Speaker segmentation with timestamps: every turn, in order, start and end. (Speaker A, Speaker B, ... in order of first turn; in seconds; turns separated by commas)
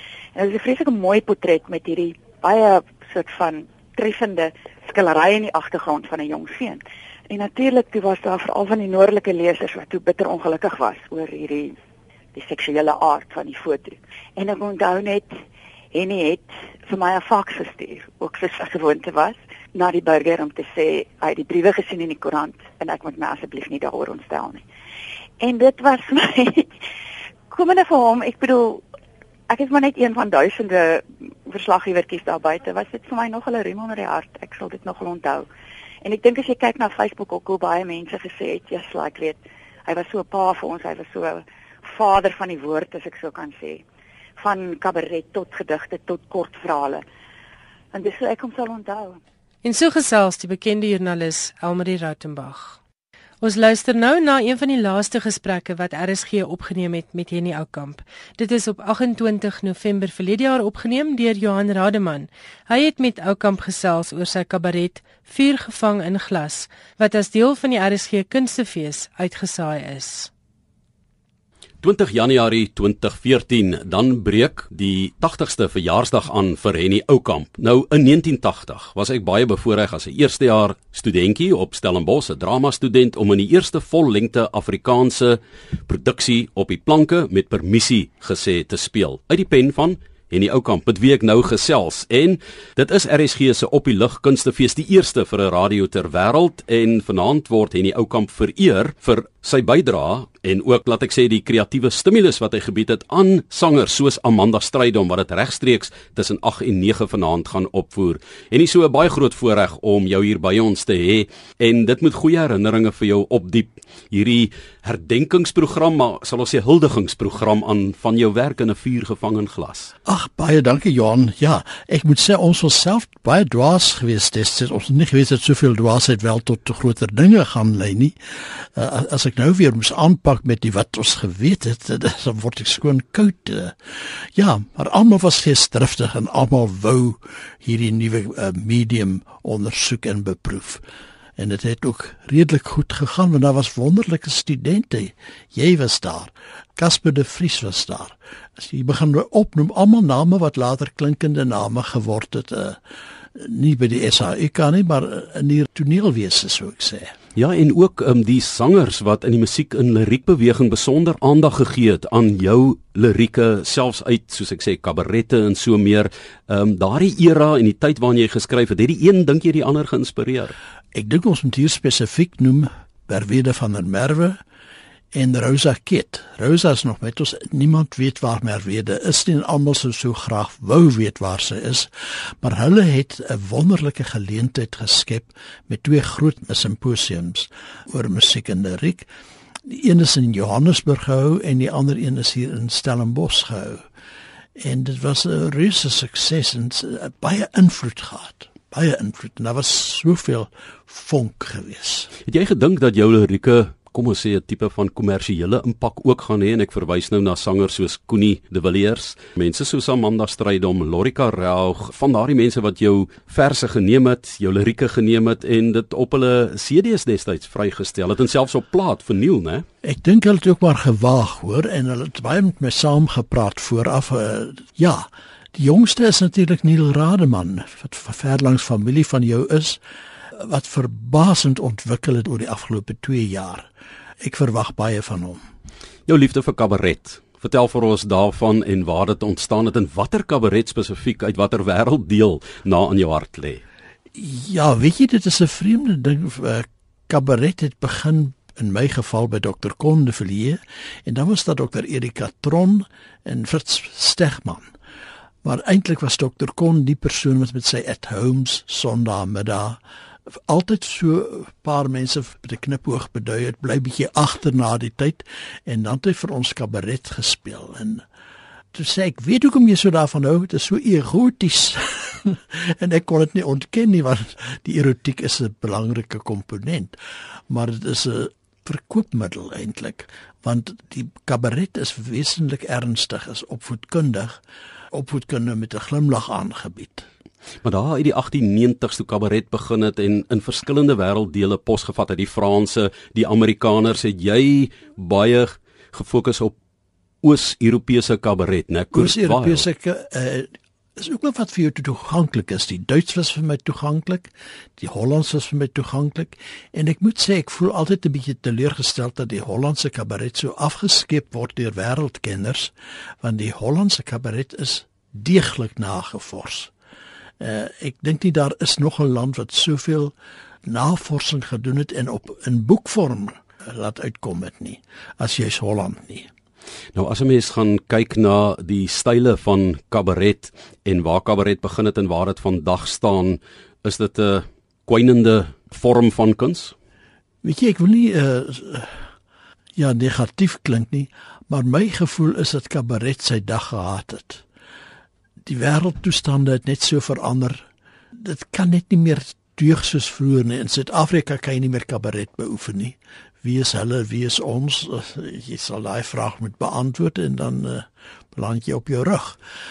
Speaker A: 0.3-11.8, Speaker A: 12.3-15.4, Speaker A: 15.9-24.6, Speaker A: 25.4-26.7, Speaker A: 27.5-28.8, Speaker A: 29.5-35.5, Speaker A: 36.0-43.8, Speaker A: 44.4-47.0, Speaker A: 47.9-49.2, Speaker B: 49.6-52.8, Speaker B: 53.4-70.3, Speaker C: 71.8-119.9, Speaker D: 120.1-133.8, Speaker D: 134.3-140.8, Speaker D: 141.4-152.8, Speaker D: 153.3-157.1, Speaker C: 157.4-170.6, Speaker D: 170.9-174.4, Speaker D: 175.1-181.9, Speaker D: 182.4-189.1, Speaker D: 189.7-193.9, Speaker D: 194.6-202.1, Speaker C: 202.3-219.7, Speaker D: 219.8-229.8, Speaker D: 230.4-233.7, Speaker D: 234.2-235.4, Speaker C: 236.1-243.6, Speaker D: 244.2-254.7, Speaker D: 255.4-259.8, Speaker D: 260.5-268.1, Speaker D: 268.7-277.0, Speaker D: 277.5-284.4, Speaker D: 284.9-287.1, Speaker C: 287.6-296.5, Speaker C: 297.2-299.7, Speaker D: 298.9-316.7, Speaker D: 317.4-320.1, Speaker D: 320.7-326.3, Speaker C: 326.9-336.7, Speaker D: 337.4-339.1, Speaker D: 339.8-344.5, Speaker D: 345.4-359.4